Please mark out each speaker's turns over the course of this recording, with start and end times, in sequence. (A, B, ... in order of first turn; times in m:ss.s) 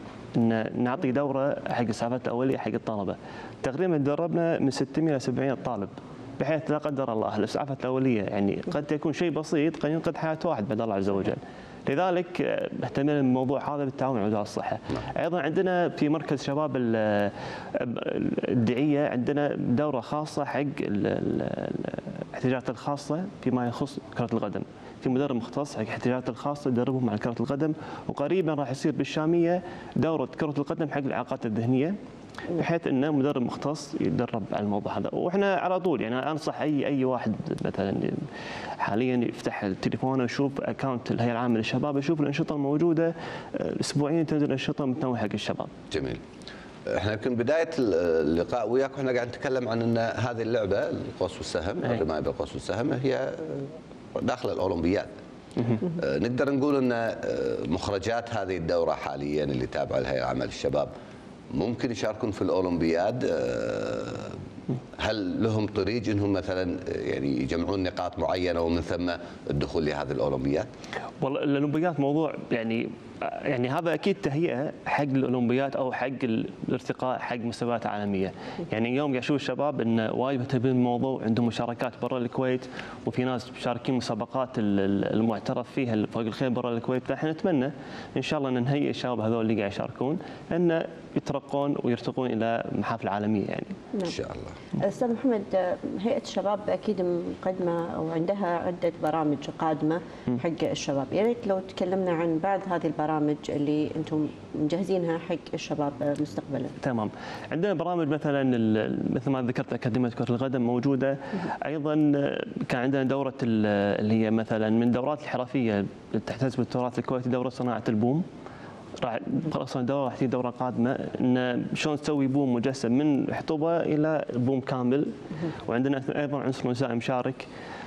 0:00.4-0:32.0 A
0:32.5-0:38.3 A
0:38.8-0:45.7 A
0:45.9-0:46.2 B
0:46.9-0:55.1 B
0:55.8-1:00.9 B
1:01.5-1:04.4 B
1:05.0-1:10.7 B
1:11.2-1:33.8 A
1:34.1-1:34.6 B
1:34.8-1:46.8 C
1:46.8-1:58.2 A
1:59.0-2:05.1 A
2:05.7-2:07.5 A